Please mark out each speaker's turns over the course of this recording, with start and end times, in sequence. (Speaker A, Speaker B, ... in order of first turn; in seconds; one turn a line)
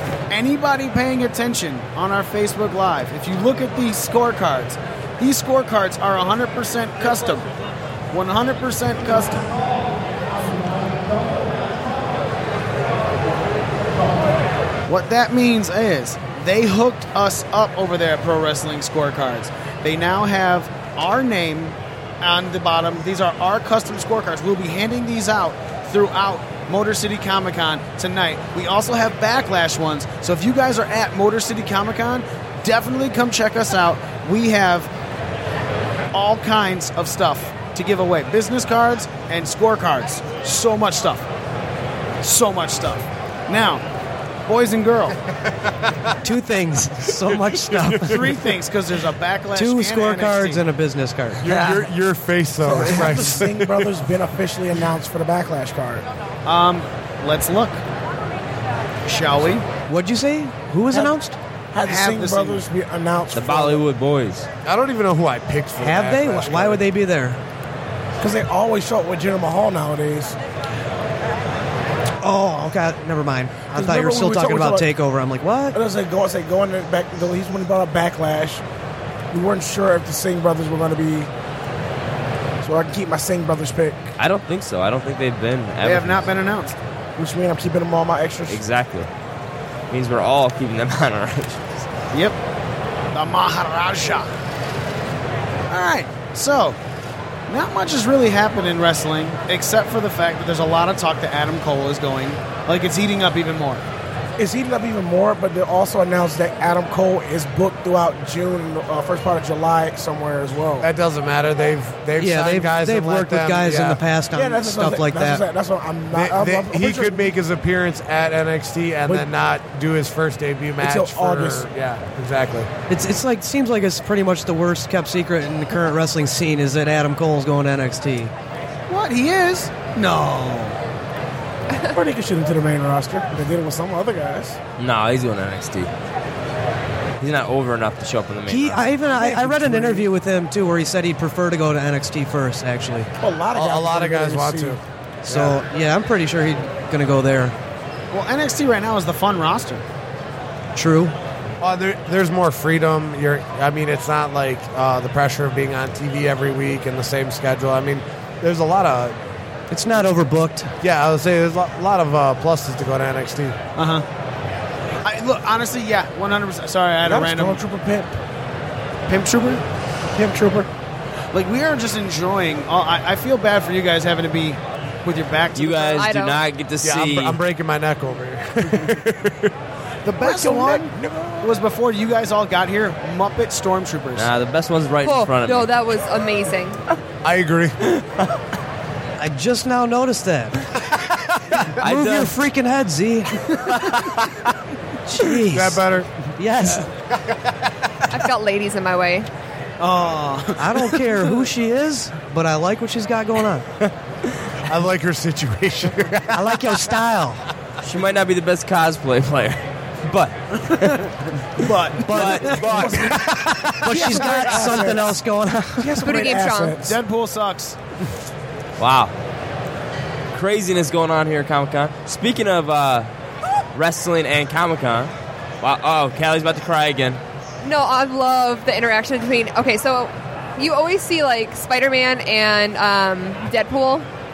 Speaker A: 0.3-7.5
Speaker A: 8.1-9.5
Speaker A: 14.9-34.9
Speaker A: 36.1-41.3
Speaker A: 42.2-43.8
Speaker A: 44.5-45.2
Speaker B: 46.2-48.3
Speaker A: 48.0-50.6
Speaker B: 49.5-51.8
Speaker C: 51.4-54.0
Speaker D: 52.6-56.0
Speaker B: 52.7-53.1
Speaker A: 56.4-57.8
Speaker A: 59.0-59.7
Speaker B: 59.9-61.4
Speaker D: 61.7-63.8
Speaker A: 61.8-62.6
Speaker E: 63.3-64.5
Speaker C: 64.6-66.8
Speaker B: 65.8-67.4
Speaker D: 68.2-70.4
Speaker B: 72.2-75.8
Speaker D: 73.7-74.9
Speaker D: 75.7-78.6
Speaker D: 79.3-81.3
Speaker D: 82.6-84.1
Speaker E: 84.2-86.3
Speaker A: 85.8-86.8
Speaker D: 87.2-88.6
Speaker E: 88.5-89.1
Speaker E: 89.9-91.9
Speaker A: 92.1-92.4
Speaker A: 93.1-94.3
Speaker A: 95.7-96.8
Speaker A: 97.5-103.8
Speaker D: 104.4-110.9
Speaker C: 110.8-114.0
Speaker B: 112.2-115.4
Speaker D: 114.3-117.3
Speaker C: 116.1-122.7
Speaker D: 120.8-121.7
Speaker B: 122.9-128.3
Speaker A: 128.9-130.8
Speaker D: 131.9-134.6
Speaker E: 134.8-135.9
Speaker E: 137.2-138.8
Speaker B: 138.5-143.1
Speaker D: 139.1-140.1
Speaker D: 143.2-144.8
Speaker C: 143.5-145.6
Speaker B: 145.2-147.5
Speaker A: 148.1-149.8
Speaker B: 150.7-151.1
Speaker C: 151.6-159.2
Speaker B: 159.7-160.7
Speaker C: 160.8-163.6
Speaker A: 163.8-164.1
Speaker A: 165.0-167.6
Speaker D: 167.0-168.2
Speaker A: 169.1-169.6
Speaker D: 170.1-170.7
Speaker A: 171.3-176.1
Speaker E: 175.5-177.4
Speaker F: 175.9-176.4
Speaker C: 176.8-179.5
Speaker A: 180.0-184.3
Speaker D: 180.1-181.4
Speaker E: 184.2-185.7
Speaker F: 185.0-186.8
Speaker C: 187.2-187.8
Speaker B: 189.2-190.5
Speaker E: 191.8-192.3
Speaker B: 191.8-193.3
Speaker E: 193.7-194.2
Speaker B: 195.1-195.8
Speaker C: 195.5-196.1
Speaker B: 196.3-196.9
Speaker C: 197.2-197.5
Speaker F: 198.1-199.3
Speaker A: 199.8-201.1
Speaker B: 200.6-203.7
Speaker C: 204.7-206.8
Speaker B: 206.3-207.4
Speaker E: 207.8-211.1
Speaker A: 211.6-212.9
Speaker B: 212.0-216.0
Speaker E: 212.1-213.2
Speaker D: 212.8-213.1
Speaker C: 213.0-214.3
Speaker D: 213.9-215.2
Speaker D: 215.8-217.0
Speaker F: 216.0-216.8
Speaker A: 216.8-217.8
Speaker E: 218.8-219.1
Speaker E: 220.3-223.1
Speaker E: 223.7-227.2
Speaker F: 227.6-234.1